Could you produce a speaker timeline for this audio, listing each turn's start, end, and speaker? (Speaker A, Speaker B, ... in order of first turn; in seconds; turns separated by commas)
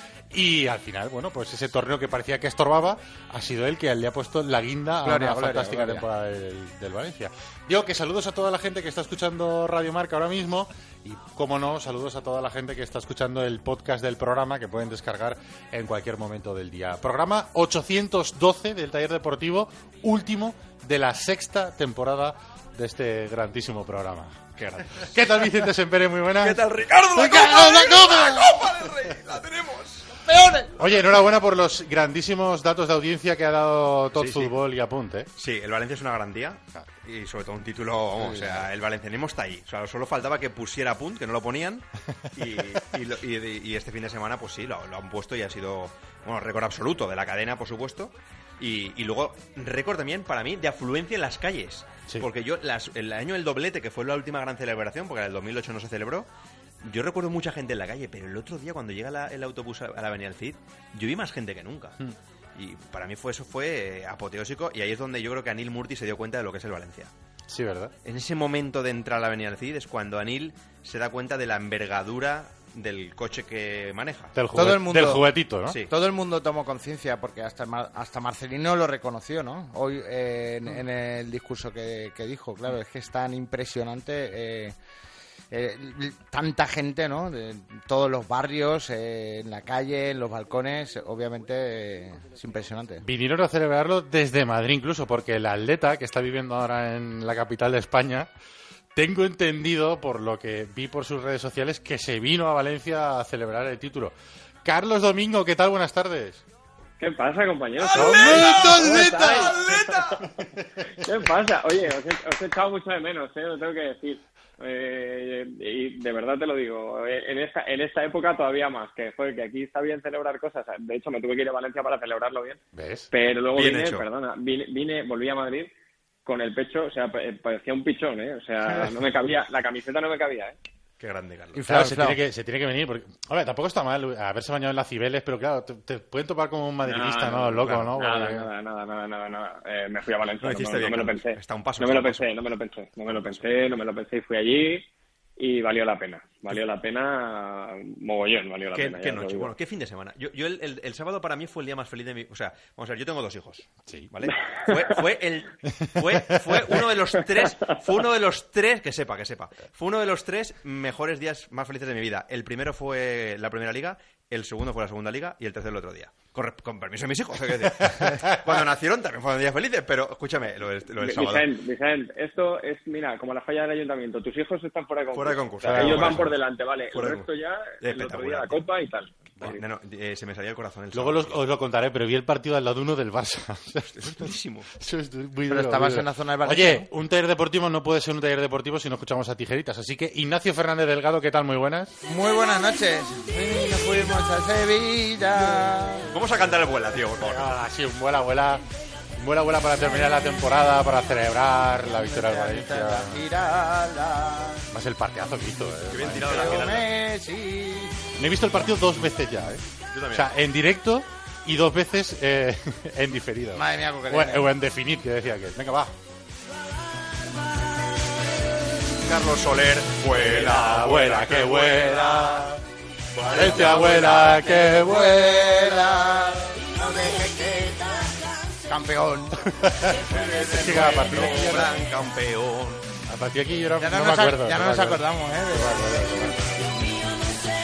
Speaker A: 0.3-28.9, Speaker B: 5.0-6.1, Speaker C: 24.6-25.0, Speaker C: 26.4-30.2, Speaker B: 30.3-30.8, Speaker A: 30.8-35.3, Speaker C: 34.1-34.5, Speaker C: 35.4-56.3, Speaker B: 38.2-38.6, Speaker C: 56.8-62.0, Speaker C: 62.6-67.1, Speaker A: 67.5-68.0, Speaker C: 68.0-74.4, Speaker A: 74.3-75.8, Speaker B: 74.5-75.3, Speaker C: 75.7-75.9, Speaker B: 75.9-84.7, Speaker B: 85.5-93.0, Speaker A: 93.0-98.3, Speaker A: 99.0-106.4, Speaker D: 107.0-110.2, Speaker C: 107.8-110.3, Speaker A: 107.9-111.3, Speaker D: 111.0-122.6, Speaker A: 122.7-123.1, Speaker D: 123.1-125.7, Speaker C: 123.5-124.1, Speaker D: 126.3-130.6, Speaker C: 131.0-131.6, Speaker B: 131.6-132.2, Speaker A: 131.7-138.5, Speaker D: 136.8-144.9, Speaker C: 140.4-142.3, Speaker C: 143.1-143.7, Speaker D: 145.4-149.5, Speaker C: 148.7-171.5, Speaker A: 155.8-156.8, Speaker A: 167.8-168.3, Speaker D: 171.0-179.6, Speaker C: 175.1-176.4, Speaker A: 175.6-176.2, Speaker C: 176.9-177.3, Speaker C: 177.8-178.6, Speaker C: 179.4-181.4, Speaker A: 180.9-191.9, Speaker C: 183.9-184.7, Speaker B: 185.5-186.9, Speaker B: 192.0-196.1, Speaker A: 195.3-196.6, Speaker C: 196.1-197.6, Speaker A: 197.2-198.6, Speaker A: 199.2-203.2, Speaker B: 201.8-204.7, Speaker A: 204.7-206.7, Speaker C: 205.9-206.9, Speaker B: 206.2-208.0, Speaker A: 208.2-215.9, Speaker C: 209.9-210.3, Speaker B: 213.6-214.5, Speaker C: 218.9-222.4, Speaker A: 220.2-222.6, Speaker C: 223.1-224.7, Speaker A: 223.2-225.4, Speaker B: 223.3-228.1, Speaker B: 228.7-229.7, Speaker A: 229.6-231.7, Speaker C: 229.9-232.9, Speaker B: 230.8-231.1, Speaker A: 233.1-236.9, Speaker B: 233.8-236.8